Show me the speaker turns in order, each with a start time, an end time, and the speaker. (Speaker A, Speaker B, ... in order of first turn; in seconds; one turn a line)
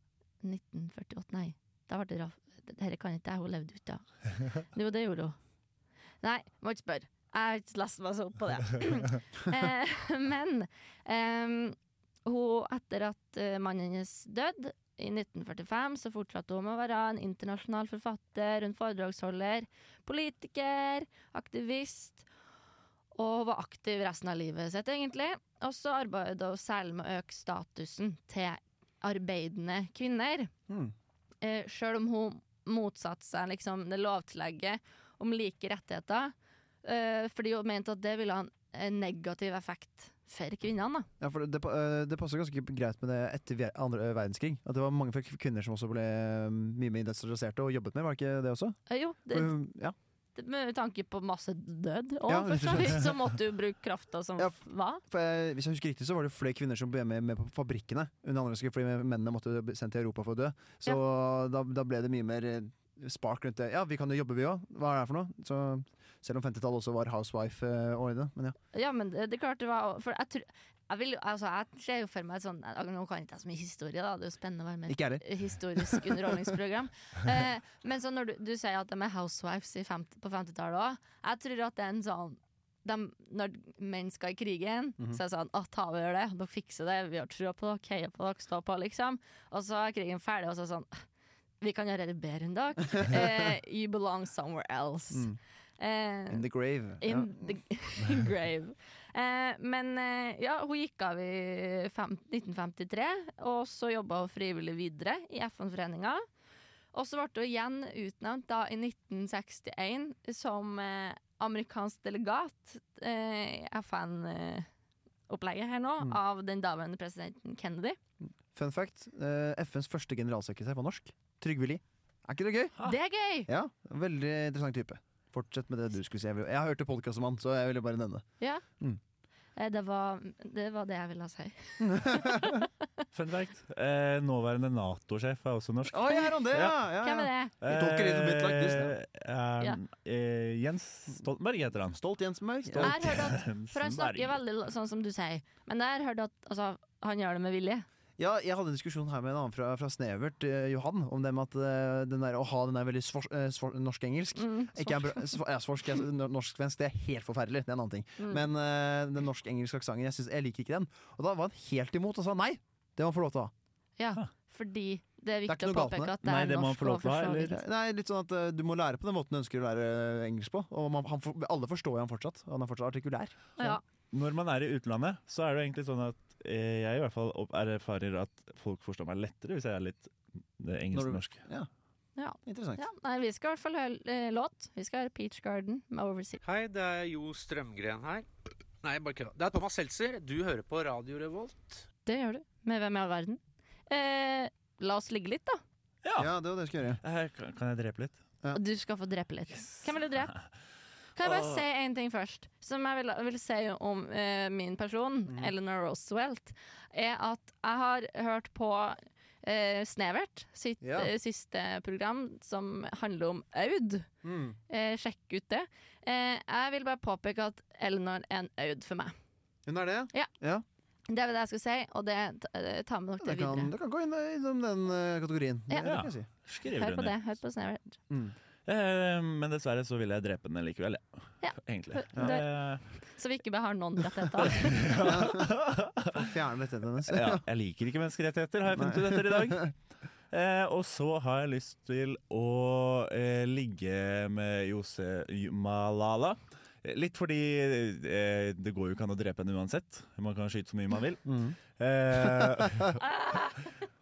Speaker A: 0.4-5.4
Speaker A: 6.2-22.2
Speaker A: 23.1-30.5
Speaker B: 30.7-30.9
Speaker A: 31.4-41.1
Speaker B: 41.2-50.0
Speaker A: 48.9-49.5
Speaker A: 50.4-55.0
Speaker B: 52.3-53.1
Speaker B: 54.4-68.5
Speaker A: 68.7-91.1
Speaker B: 74.9-76.3
Speaker A: 91.6-96.5
Speaker B: 95.1-95.4
Speaker B: 96.3-97.5
Speaker A: 97.0-106.2
Speaker A: 106.9-114.7
Speaker A: 115.3-118.0
Speaker B: 118.2-122.8
Speaker A: 122.8-123.5
Speaker B: 123.4-128.3
Speaker A: 129.6-132.7
Speaker B: 131.8-132.6
Speaker C: 133.1-136.8
Speaker B: 135.9-138.9
Speaker A: 137.0-137.5
Speaker C: 137.6-142.0
Speaker B: 141.9-143.3
Speaker C: 142.7-144.4
Speaker A: 142.8-147.8
Speaker B: 148.2-163.5
Speaker A: 154.3-155.4
Speaker A: 158.2-158.4
Speaker A: 164.0-167.6
Speaker B: 165.5-166.1
Speaker C: 166.2-167.6
Speaker B: 167.5-173.8
Speaker A: 173.6-173.8
Speaker C: 174.1-181.4
Speaker B: 180.9-181.7
Speaker A: 182.2-186.4
Speaker B: 182.4-182.8
Speaker D: 186.4-188.2
Speaker D: 188.8-191.8
Speaker A: 192.1-195.6
Speaker C: 196.0-196.3
Speaker B: 196.2-197.0
Speaker C: 197.0-198.2
Speaker A: 198.5-200.4
Speaker C: 199.6-200.4
Speaker A: 201.2-214.1
Speaker C: 201.2-201.6
Speaker B: 205.3-205.5
Speaker B: 210.8-211.1
Speaker B: 214.2-214.6
Speaker A: 214.7-219.1
Speaker B: 219.7-220.6
Speaker A: 221.1-223.7
Speaker B: 223.2-226.3
Speaker C: 225.8-227.2
Speaker A: 226.7-227.9
Speaker B: 228.1-228.3
Speaker C: 228.7-232.8
Speaker A: 231.4-235.0
Speaker B: 232.1-232.4
Speaker C: 234.4-236.3
Speaker B: 235.0-235.5
Speaker B: 236.1-237.4
Speaker C: 237.1-239.8
Speaker B: 238.7-239.7
Speaker C: 240.3-253.0
Speaker B: 251.2-251.6
Speaker B: 252.2-252.7
Speaker A: 253.0-253.7